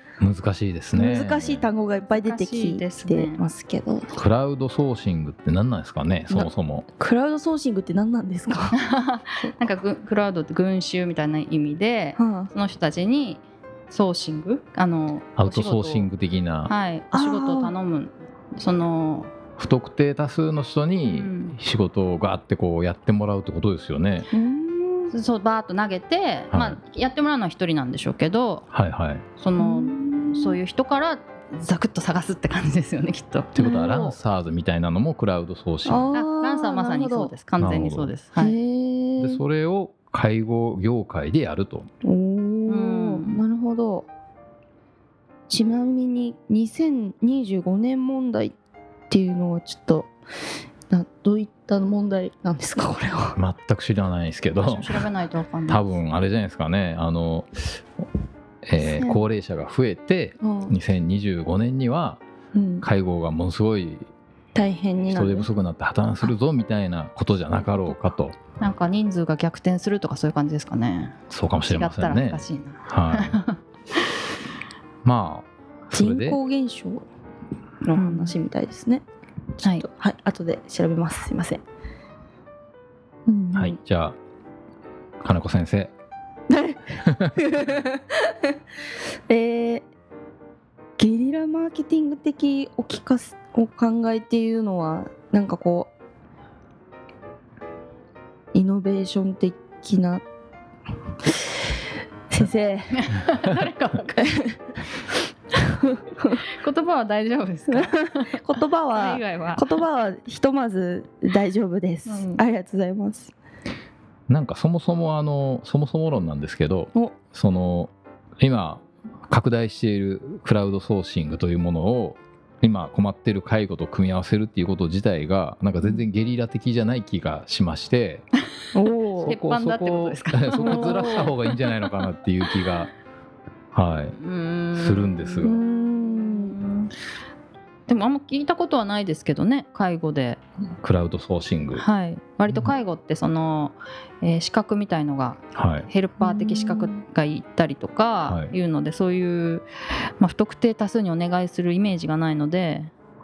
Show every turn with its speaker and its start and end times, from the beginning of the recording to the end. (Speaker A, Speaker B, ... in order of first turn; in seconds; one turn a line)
Speaker A: 0.2-1.6
Speaker B: 0.9-4.2
Speaker C: 2.1-3.4
Speaker A: 4.2-6.9
Speaker B: 6.3-8.8
Speaker C: 8.8-16.1
Speaker B: 12.2-12.5
Speaker A: 15.4-16.7
Speaker C: 16.6-19.3
Speaker B: 17.1-17.7
Speaker A: 19.6-24.3
Speaker C: 21.1-21.6
Speaker B: 24.3-25.1
Speaker C: 25.1-28.6
Speaker A: 26.5-26.8
Speaker A: 28.7-29.2
Speaker C: 29.4-34.2
Speaker B: 29.6-30.6
Speaker A: 33.5-36.1
Speaker B: 33.6-34.0
Speaker B: 35.9-37.3
Speaker C: 36.1-38.6
Speaker A: 37.6-38.1
Speaker B: 38.4-39.4
Speaker A: 39.2-41.9
Speaker B: 42.0-44.1
Speaker C: 42.7-43.4
Speaker B: 45.5-48.5
Speaker B: 49.1-50.1
Speaker B: 50.9-53.4
Speaker A: 53.4-55.1
Speaker C: 54.6-56.0
Speaker A: 55.7-58.1
Speaker A: 58.6-62.2
Speaker B: 58.8-59.2
Speaker B: 60.4-60.8
Speaker B: 62.5-62.9
Speaker A: 62.8-64.1
Speaker B: 64.5-65.5
Speaker A: 65.1-68.4
Speaker C: 68.6-71.2
Speaker A: 71.3-73.4
Speaker C: 71.7-73.6
Speaker A: 75.0-76.4
Speaker B: 75.9-77.0
Speaker B: 77.8-79.0
Speaker C: 78.0-78.3
Speaker B: 79.6-81.6
Speaker C: 79.6-79.8
Speaker B: 83.3-83.8
Speaker A: 83.5-84.2
Speaker A: 85.2-85.9
Speaker B: 86.5-88.5
Speaker A: 87.0-87.3
Speaker B: 89.3-89.9
Speaker B: 91.0-95.9
Speaker B: 98.5-100.2
Speaker B: 101.2-101.7
Speaker B: 102.3-102.9
Speaker C: 102.9-104.3
Speaker B: 104.2-104.6
Speaker B: 105.7-106.4
Speaker C: 106.4-108.4
Speaker B: 107.7-113.3
Speaker C: 108.9-109.7
Speaker C: 112.1-112.4
Speaker A: 114.3-128.2
Speaker B: 128.7-129.3
Speaker A: 129.2-132.9
Speaker C: 129.2-131.3
Speaker B: 130.6-131.3
Speaker A: 133.7-134.2
Speaker C: 134.2-136.9
Speaker A: 134.7-135.6
Speaker B: 135.4-136.6
Speaker C: 137.9-140.4
Speaker A: 140.8-141.8
Speaker C: 141.8-149.7
Speaker A: 145.6-145.9
Speaker B: 146.2-147.0
Speaker A: 148.3-148.5
Speaker C: 150.2-152.9